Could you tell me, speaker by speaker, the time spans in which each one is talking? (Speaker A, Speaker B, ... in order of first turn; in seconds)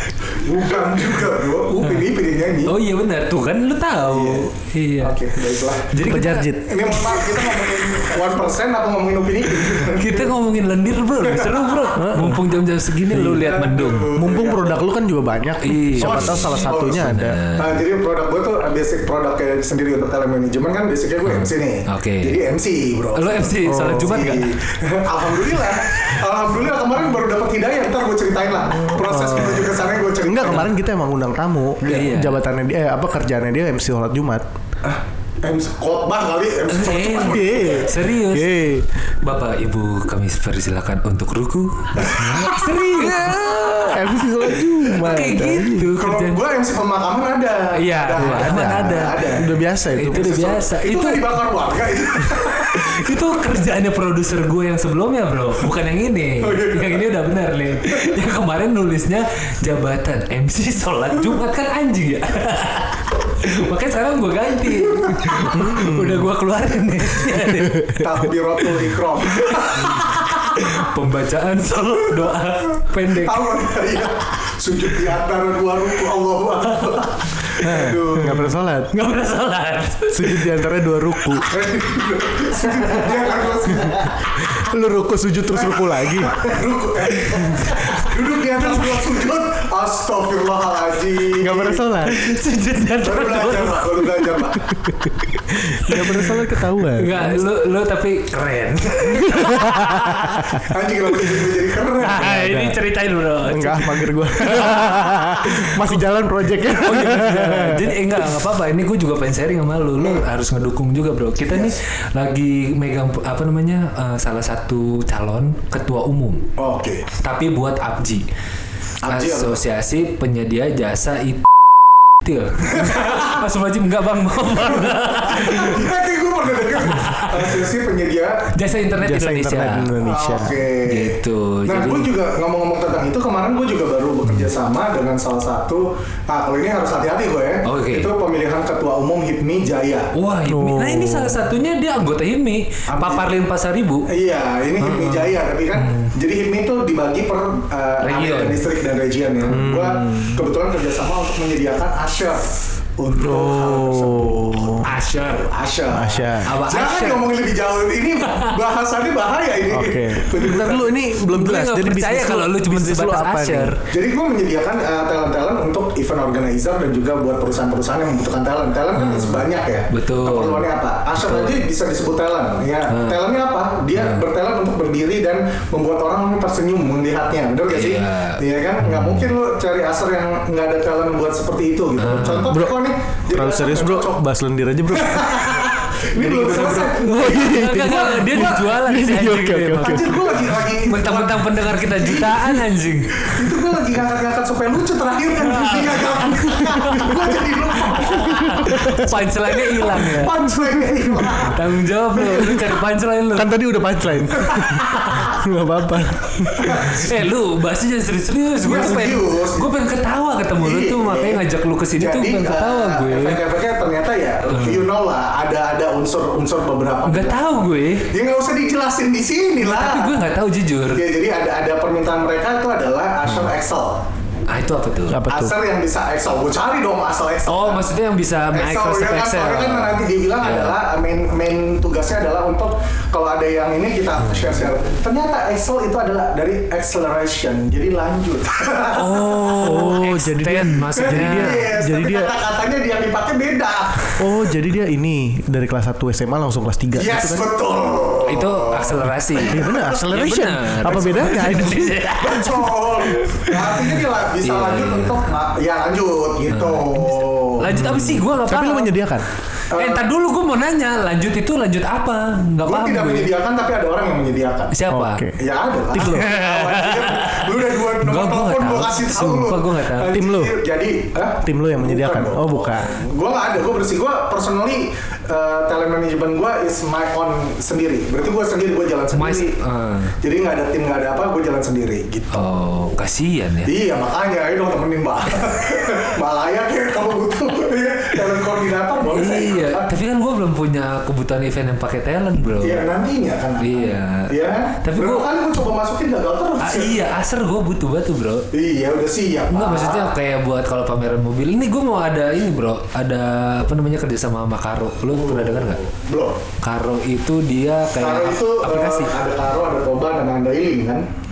Speaker A: 0.3-2.7, 4.0-5.9, 6.6-10.3, 11.2-11.8, 13.4-14.8, 16.0-30.7, 31.8-32.1, 34.8-37.9, 46.0-49.5, 50.1-53.1, 56.4-57.1, 64.8-65.4, 68.0-70.6, 73.1-78.5, 81.4-84.2, 85.5-91.9, 93.0-94.8, 100.6-102.4, 111.5-111.8, 116.6-117.1, 119.0-119.6, 122.7-123.4, 124.8-128.5, 130.0-140.1, 142.9-143.3, 144.1-161.0, 163.9-184.2, 184.9-188.5, 189.8-199.1, 199.8-201.6, 204.5-205.3, 206.6-207.1, 208.6-209.7, 210.5-211.4, 211.9-220.1, 220.9-224.1, 225.3-227.9, 228.5-239.8, 240.9-244.2, 246.9-249.6, 250.8-251.5, 252.2-257.7, 259.7-260.0, 262.6-264.7, 265.4-279.6, 280.2-282.4, 283.6-289.9, 292.6-297.1, 298.5-300.1, 305.1-306.4, 308.0-311.1
Speaker B: 1.8-2.0, 2.6-5.2, 5.9-6.6, 9.8-14.1, 15.6-17.8, 21.2-22.4, 23.1-24.5, 31.9-32.4, 36.7-38.6, 39.2-46.4, 47.7-49.3, 49.9-51.2, 52.4-67.8, 69.5-73.5, 78.9-80.6, 92.0-94.4, 95.5-100.6, 102.0-105.9, 106.8-116.5, 117.1-118.2, 119.1-121.4, 122.2-125.9, 126.9-127.5, 128.5-129.9, 130.8-132.1, 137.6-138.1, 140.1-144.1, 144.8-146.1, 148.0-148.6, 154.8-155.5, 156.4-157.3, 158.2-158.5, 161.3-163.8, 169.0-170.7, 171.2-171.6, 172.9-173.2, 173.9-174.2, 177.7-179.3, 182.0-182.5, 186.2-193.3, 195.4-197.2, 198.0-200.3, 201.5-203.5, 204.8-205.3, 206.7-213.4, 214.4-214.8, 217.0-218.1, 219.6-221.0, 224.5-225.2, 227.5-230.8, 238.9-241.6, 248.3-255.2, 256.5-258.9, 259.7-263.3, 264.7-265.2, 266.0-270.1, 279.1-280.1, 282.3-283.7, 289.1-292.8, 293.6-295.3, 296.6-298.4, 299.5-305.8, 306.6-309.1
Speaker C: 6.0-7.2, 11.9-12.4, 13.1-13.6, 14.1-17.4, 23.6-24.1, 28.9-34.5, 37.2-38.9, 43.0-43.3, 43.9-45.9, 48.2-50.5, 65.5-66.3, 67.5-68.0, 77.6-78.9, 80.1-81.5, 84.4-86.6, 87.3-87.7, 91.4-92.2, 95.3-97.5, 99.1-100.6, 102.2-102.8, 103.4-108.0, 129.0-130.6, 140.4-141.4, 149.5-150.4, 153.1-154.8, 155.9-156.5, 159.7-163.8, 182.4-182.8, 183.3-185.7, 186.9-190.2, 198.3-199.1, 200.5-201.3, 203.3-206.8, 225.1-225.6, 239.5-242.3, 244.2-247.5, 249.5-252.0, 257.7-259.2, 264.9-265.4, 265.9-266.3, 270.1-270.6, 271.4-272.9